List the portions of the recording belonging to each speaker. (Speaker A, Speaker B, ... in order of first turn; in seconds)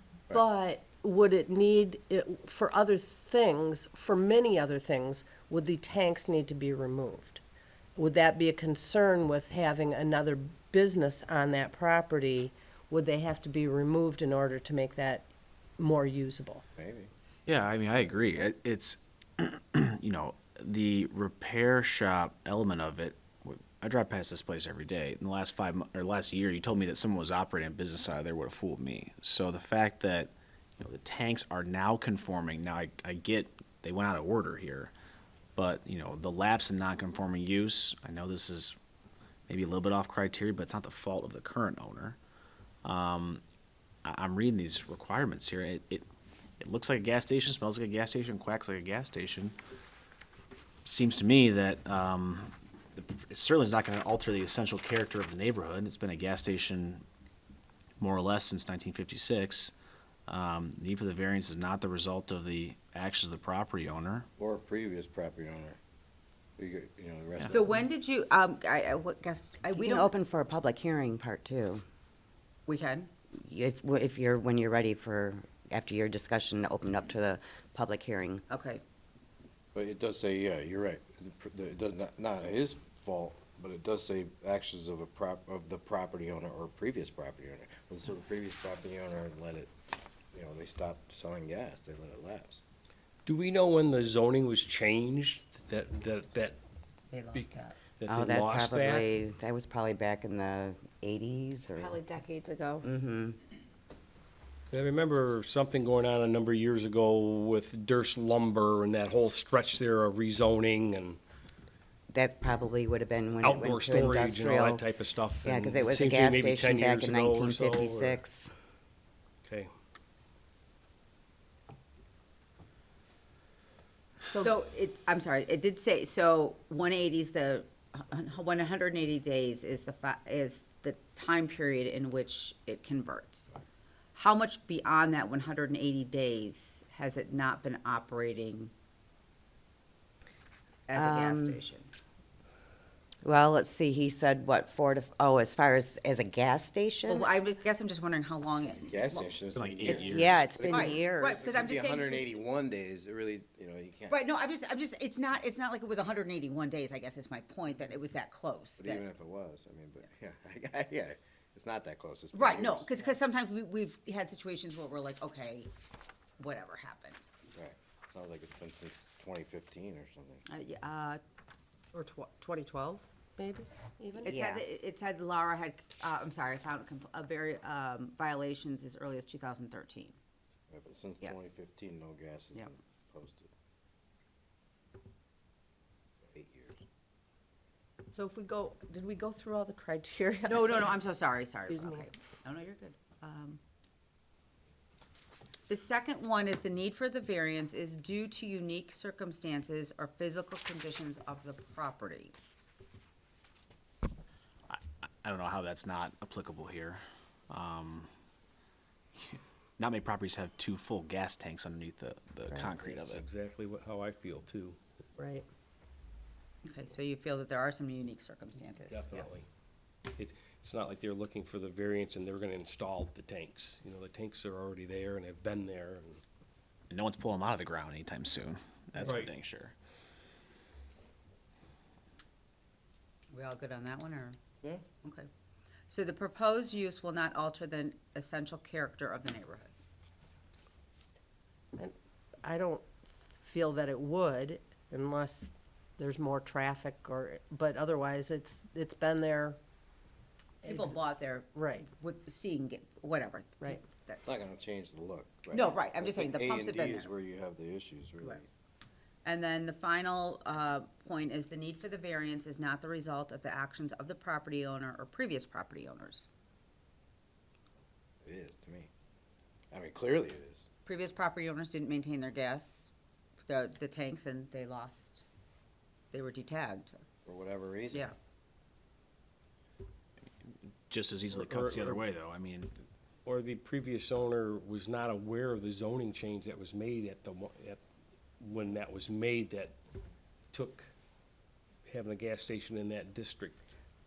Speaker A: 0.3-7.4, 8.0-16.6, 171.9-174.3, 215.2-215.4, 242.4-249.6, 250.6-250.9, 251.5-251.8
Speaker B: 16.8-17.1, 64.4-65.8, 66.6-67.8, 79.7-89.7, 90.3-92.6, 148.8-154.2, 158.8-163.0, 167.5-170.4, 180.7-183.5, 186.3-186.8, 254.2-258.5, 268.2-268.9, 269.7-270.6, 277.2-278.1
Speaker C: 17.5-34.9, 35.5-38.7, 39.5-42.2, 42.8-43.4, 44.0-46.0, 46.6-49.5, 50.8-57.0, 58.0-59.7, 60.3-64.3, 149.5-150.5, 204.7-208.1, 209.2-213.2, 226.9-229.7, 280.4-282.7
Speaker D: 67.5-70.1, 72.7-73.1, 78.5-78.8, 97.1-97.8, 101.8-102.8, 124.3-133.5, 134.1-138.7, 140.9-141.9, 147.1-149.4, 150.7-152.3, 154.1-159.0, 162.3-165.7, 166.4-167.3, 170.5-171.2, 174.2-180.2, 181.2-181.5, 188.3-193.6, 195.7-202.3, 216.6-219.3, 233.3-234.4, 235.9-239.7, 250.6-254.2, 255.5-257.1, 259.2-266.2, 270.9-272.9, 273.4-275.2, 276.1-277.0
Speaker E: 69.8-71.8, 73.4-78.4, 98.0-102.0, 102.8-103.4, 112.1-114.8, 115.4-118.5, 140.9-141.6, 143.2-147.3, 149.9-151.5, 174.2-174.6
Speaker F: 93.2-96.6, 97.3-99.1, 104.7-111.2, 113.4-118.2, 119.4-119.7, 212.6-214.8, 218.9-219.4, 220.1-226.2, 229.0-229.3, 281.3-282.0, 283.2-287.8, 288.4-289.8, 290.5-290.9, 291.9-293.6